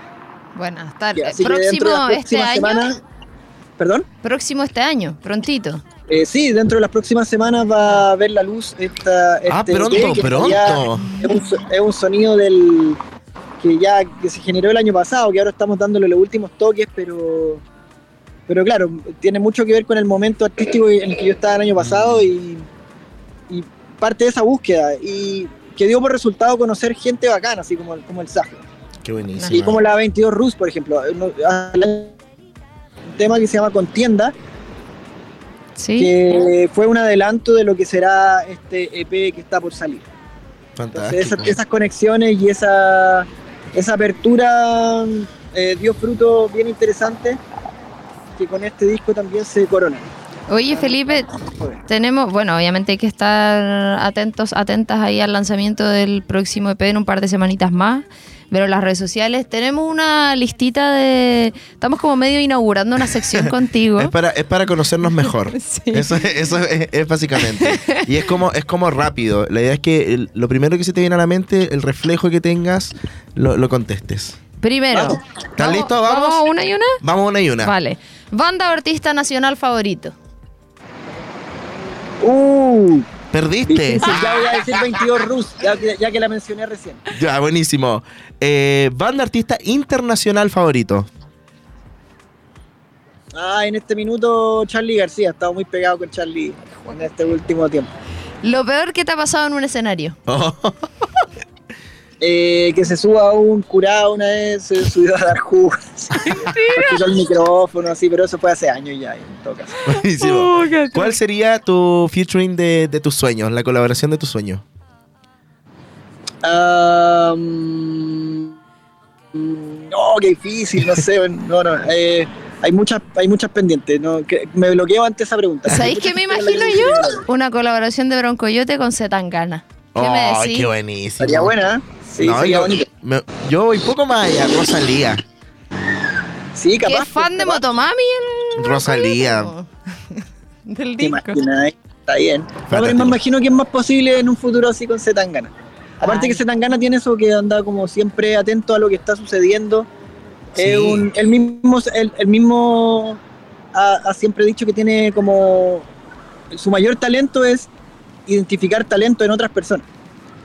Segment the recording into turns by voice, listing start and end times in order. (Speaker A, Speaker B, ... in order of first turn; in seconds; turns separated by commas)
Speaker A: 0.6-2.9, Speaker B: 1.2-3.0, Speaker B: 3.8-4.1, Speaker A: 4.2-5.8, Speaker B: 6.1-13.0, Speaker C: 9.5-11.1, Speaker B: 13.6-17.6, Speaker B: 18.5-22.7, Speaker C: 21.8-22.3, Speaker B: 23.5-28.6, Speaker C: 29.0-29.8, Speaker A: 29.4-29.6, Speaker B: 29.5-32.2, Speaker B: 33.1-34.3, Speaker A: 35.8-36.1, Speaker B: 36.0-40.1, Speaker C: 40.8-41.6, Speaker B: 40.9-47.4, Speaker B: 48.4-50.1, Speaker A: 50.5-51.3, Speaker B: 50.7-51.8, Speaker A: 51.9-64.1, Speaker C: 64.0-74.4, Speaker A: 65.5-66.1, Speaker A: 67.4-68.0, Speaker A: 74.6-77.0, Speaker B: 74.9-75.2, Speaker C: 75.6-76.5, Speaker C: 77.0-77.7, Speaker A: 77.6-80.2, Speaker B: 82.2-83.1, Speaker C: 83.3-84.6, Speaker B: 83.7-87.0, Speaker C: 87.1-91.1, Speaker B: 93.3-97.9, Speaker A: 98.4-100.2, Speaker C: 100.3-101.2, Speaker B: 102.2-109.8, Speaker A: 106.4-106.9, Speaker C: 109.9-114.6, Speaker A: 110.2-111.2, Speaker B: 116.4-118.5, Speaker B: 119.3-127.2, Speaker A: 125.7-130.7, Speaker C: 129.9-131.6, Speaker B: 131.2-132.9, Speaker C: 132.2-135.2, Speaker B: 136.6-137.7, Speaker A: 136.8-141.4, Speaker C: 138.6-139.5, Speaker B: 141.0-145.5, Speaker C: 142.7-143.2, Speaker A: 146.0-146.4, Speaker B: 146.0-149.9, Speaker B: 150.6-153.2, Speaker C: 150.6-151.1, Speaker B: 153.7-155.9, Speaker B: 156.5-157.7, Speaker B: 158.3-159.8